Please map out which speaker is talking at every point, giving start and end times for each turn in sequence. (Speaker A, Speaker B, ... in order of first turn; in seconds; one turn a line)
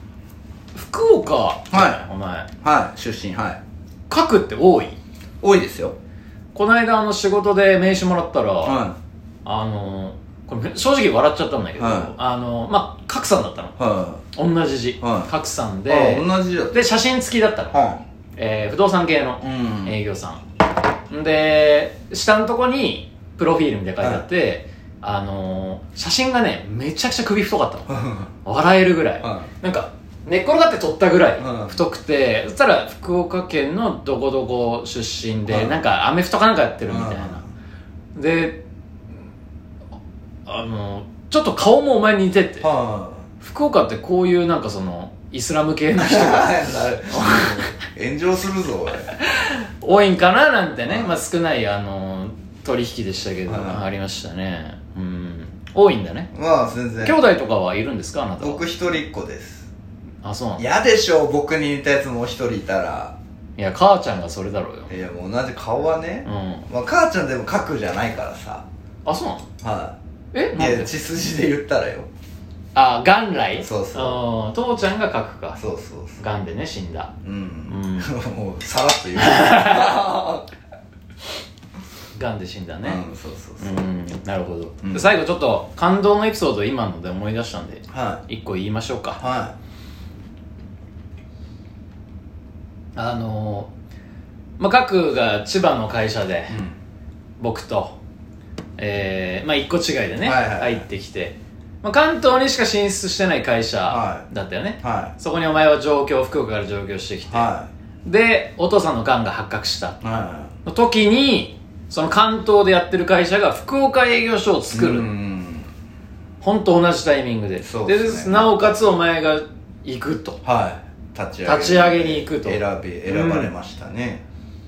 Speaker A: 0.7-2.5
Speaker B: 1.7-2.0
Speaker B: 2.6-3.6
Speaker A: 4.1-5.0
Speaker B: 5.4-6.0
Speaker A: 6.5-8.8
Speaker B: 8.6-9.0
Speaker A: 9.4-13.8
Speaker B: 11.8-12.1
Speaker B: 13.8-14.2
Speaker A: 14.3-17.8
Speaker B: 15.0-15.3
Speaker B: 15.8-16.8
Speaker B: 17.7-18.0
Speaker A: 18.4-20.4
Speaker B: 19.4-19.9
Speaker A: 21.1-37.4
Speaker B: 24.0-24.2
Speaker B: 27.9-28.3
Speaker B: 29.2-29.5
Speaker B: 31.4-31.8
Speaker B: 35.5-35.8
Speaker B: 36.9-37.5
Speaker A: 38.1-38.6
Speaker A: 40.5-42.7
Speaker B: 42.6-43.2
Speaker A: 43.4-47.6
Speaker B: 46.0-49.1
Speaker A: 49.3-56.3
Speaker B: 50.8-51.2
Speaker B: 53.5-53.8
Speaker B: 56.3-57.2
Speaker A: 57.0-58.6
Speaker B: 58.4-59.7
Speaker A: 60.2-60.6
Speaker B: 60.6-63.1
Speaker A: 63.6-64.9
Speaker B: 64.9-68.7
Speaker A: 66.2-66.7
Speaker A: 69.0-69.5
Speaker B: 69.6-70.0
Speaker A: 70.3-70.9
Speaker B: 70.5-72.1
Speaker A: 72.7-75.6
Speaker B: 73.6-74.2
Speaker B: 75.6-76.2
Speaker A: 76.2-77.1
Speaker B: 77.2-80.5
Speaker A: 77.7-78.1
Speaker A: 79.2-80.1
Speaker A: 82.1-83.0
Speaker B: 82.8-83.8
Speaker A: 83.6-89.2
Speaker B: 84.8-85.1
Speaker B: 87.9-88.2
Speaker B: 89.2-89.5
Speaker A: 93.0-93.7
Speaker A: 94.6-96.5
Speaker B: 96.5-96.8
Speaker A: 97.4-98.0
Speaker A: 98.8-107.5
Speaker B: 100.2-100.8
Speaker B: 103.9-104.3
Speaker B: 104.8-105.1
Speaker B: 107.3-107.7
Speaker A: 108.0-110.0
Speaker B: 110.0-110.5
Speaker A: 110.7-115.1
Speaker B: 114.7-115.7
Speaker A: 116.4-120.4
Speaker B: 117.6-119.0
Speaker B: 120.4-124.2
Speaker A: 121.4-123.5